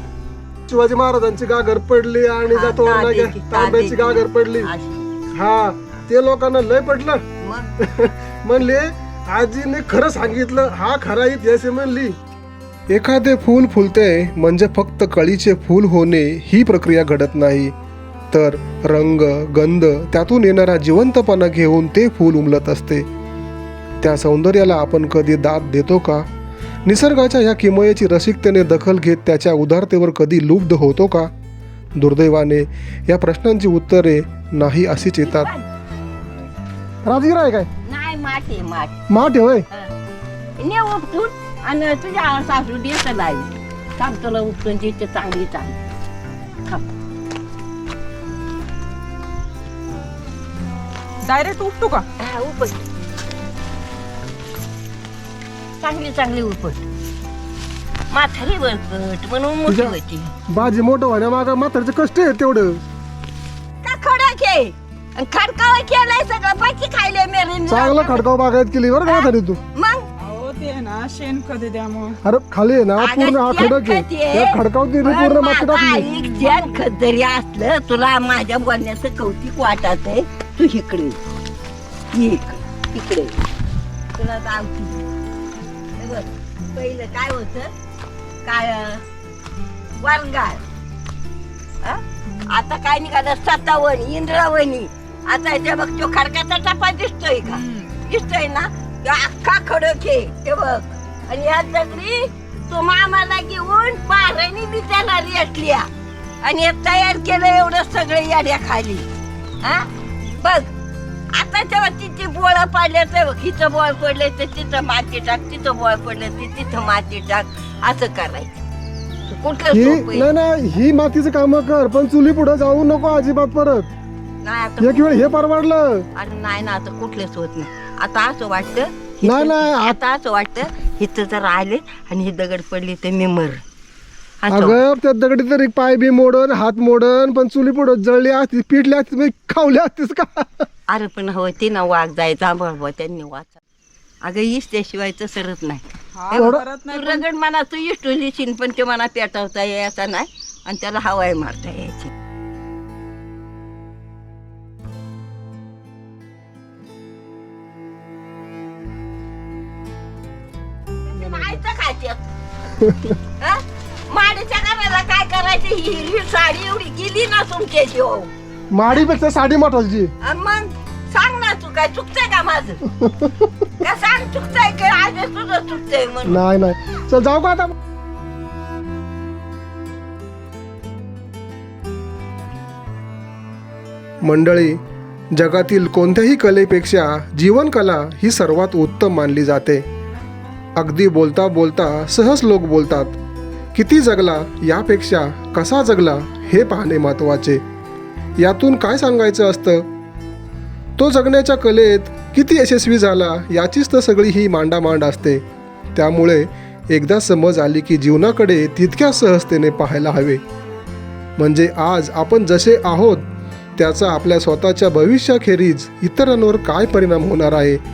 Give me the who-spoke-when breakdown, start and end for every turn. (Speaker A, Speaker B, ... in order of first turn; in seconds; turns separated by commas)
Speaker A: 0.7-4.7, Speaker B: 2.5-5.0, Speaker A: 5.3-7.2, Speaker B: 7.4-7.7, Speaker A: 7.8-12.2, Speaker A: 12.9-17.7, Speaker A: 18.3-23.1, Speaker A: 24.0-26.2, Speaker A: 26.9-31.3, Speaker A: 31.9-35.5, Speaker B: 35.2-35.7, Speaker A: 37.0-37.7, Speaker B: 37.8-39.0, Speaker A: 39.1-39.6, Speaker B: 40.6-45.8, Speaker C: 51.2-52.0, Speaker B: 52.2-52.8, Speaker B: 55.8-56.8, Speaker B: 58.1-60.3, Speaker A: 59.7-60.0, Speaker A: 60.5-62.8, Speaker B: 63.8-68.2, Speaker A: 67.7-69.6, Speaker B: 69.0-70.1, Speaker C: 70.2-72.2, Speaker A: 72.2-76.1, Speaker B: 73.0-81.2, Speaker C: 76.1-76.6, Speaker B: 82.1-83.3, Speaker B: 84.1-85.0, Speaker B: 86.0-87.7, Speaker B: 88.4-89.0, Speaker B: 90.0-90.6, Speaker B: 91.8-105.9, Speaker B: 106.4-109.0, Speaker B: 109.6-110.7, Speaker B: 111.3-118.6, Speaker B: 119.2-120.3, Speaker A: 119.7-123.9, Speaker B: 124.4-125.3, Speaker A: 124.8-126.1, Speaker B: 126.1-133.6, Speaker A: 129.2-130.0, Speaker B: 134.4-134.8, Speaker A: 134.5-140.7, Speaker B: 140.9-143.6, Speaker B: 144.2-152.1, Speaker C: 146.2-147.2, Speaker A: 146.3-146.6, Speaker B: 161.1-162.2, Speaker A: 162.8-163.2, Speaker B: 163.4-168.3, Speaker A: 168.7-170.1, Speaker B: 170.2-172.9, Speaker A: 173.0-173.3, Speaker B: 173.8-176.4, Speaker A: 176.2-177.7, Speaker A: 184.2-184.8, Speaker A: 185.3-189.8, Speaker A: 190.8-193.2, Speaker A: 193.7-197.6, Speaker A: 198.4-199.9, Speaker A: 201.0-205.4, Speaker A: 205.9-210.4, Speaker A: 211.4-217.8